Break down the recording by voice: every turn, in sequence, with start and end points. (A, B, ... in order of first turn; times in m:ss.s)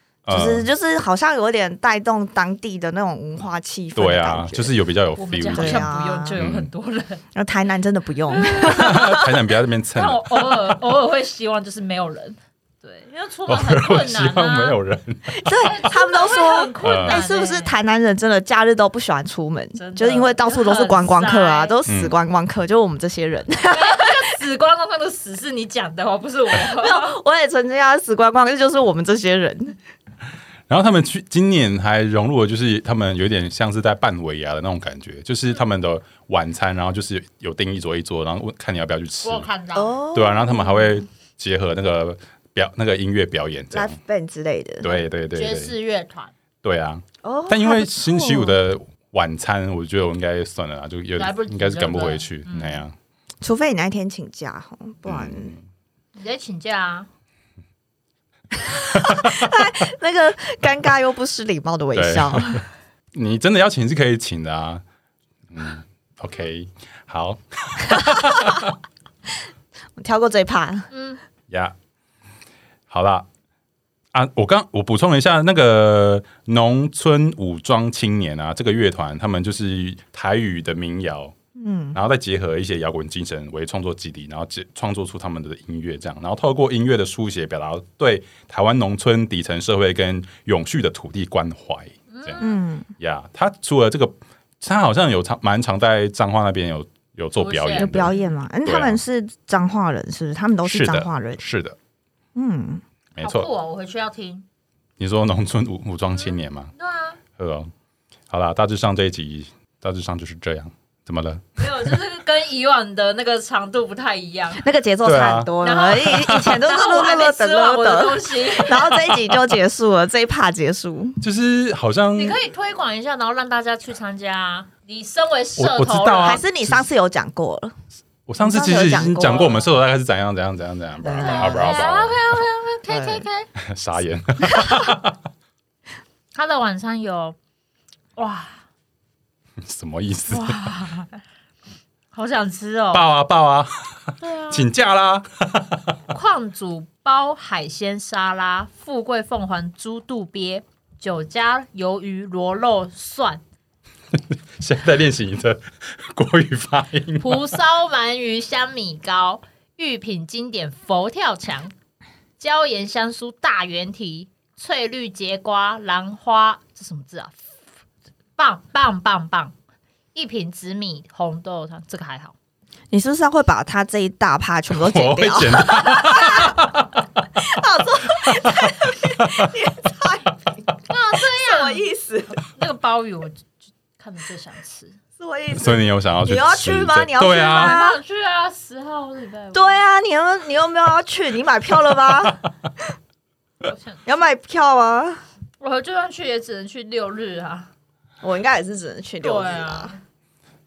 0:00.2-0:00.7 A
0:00.3-0:04.7 B
0:03.9-0:06.7 A
0:05.2-0:07.2 C
0:05.5-0:06.4 B
0:07.3-0:09.3 B
0:08.3-0:09.2 C
0:08.6-0:10.8 A
0:10.0-0:14.8 C
0:13.5-0:15.8 A
0:15.3-0:24.2 B
0:15.6-0:17.7 C
0:16.8-0:17.2 A
0:19.7-0:21.8 C
0:21.9-0:22.2 A
0:23.7-0:27.2 C
0:26.7-0:29.8 B
0:30.7-0:39.5 A
0:39.2-0:40.0 C
0:39.7-0:41.0 B
0:40.1-0:44.0 A
0:43.7-0:45.0 B
0:44.8-0:45.7 A
0:45.3-0:46.3 C
0:46.6-0:52.9 A
0:47.2-0:48.6 B
0:51.2-0:52.8 C
0:53.4-0:55.5 B
0:55.0-0:55.6 A
0:56.1-0:57.1 C
0:58.6-1:02.6 B
0:58.9-0:59.7 A
1:01.9-1:02.6 A
1:03.1-1:04.8 A
1:05.5-1:08.7 A
1:10.0-1:10.9 B
1:10.9-1:11.2 C
1:11.5-1:11.7 A
1:12.9-1:13.3 A
1:14.1-1:21.3 A
1:21.6-1:22.0 B
1:21.9-1:32.4 A
1:32.1-1:32.6 C
1:32.4-1:32.9 B
1:33.0-1:38.1 A
1:37.4-1:38.3 C
1:37.8-1:41.4 B
1:38.6-1:39.0 A
1:40.6-1:41.8 A
1:42.3-1:42.8 B
1:43.1-1:43.5 A
1:43.2-1:44.4 C
1:45.0-1:46.7 A
1:46.1-1:47.2 C
1:47.3-1:47.7 A
1:48.3-1:51.9 A
1:51.6-1:54.6 C
1:54.6-2:01.2 B
1:55.0-1:55.5 A
1:55.6-1:59.1 C
1:56.0-1:56.6 A
1:58.9-1:59.4 A
2:01.2-2:02.4 A
2:02.1-2:06.4 C
2:05.6-2:06.9 A
2:06.2-2:07.7 B
2:08.3-2:12.2 A
2:08.4-2:09.6 B
2:11.0-2:11.8 B
2:11.1-2:13.5 C
2:12.9-2:13.2 B
2:13.6-2:15.2 A
2:14.6-2:14.9 C
2:16.3-2:17.4 C
2:18.2-2:18.6 C
2:19.6-2:20.6 A
2:20.3-2:21.2 C
2:22.1-2:23.1 C
2:22.9-2:26.0 A
2:24.2-2:24.7 C
2:26.1-2:33.4 C
2:34.1-2:37.5 A
2:37.2-2:41.7 C
2:42.4-2:47.5 C
2:48.4-2:49.5 C
2:50.1-2:52.3 C
2:52.9-2:56.6 B
2:54.7-2:57.2 A
2:57.4-3:00.6 B
2:58.0-2:59.6 A
3:00.9-3:01.9 C
3:01.2-3:02.4 B
3:02.4-3:05.0 C
3:05.2-3:08.0 B
3:05.5-3:07.8 A
3:07.3-3:09.8 C
3:09.5-3:12.9 B
3:12.1-3:12.3 A
3:13.6-3:14.0 C
3:14.0-3:15.2 B
3:15.6-3:17.7 C
3:18.2-3:19.9 B
3:19.2-3:20.0 C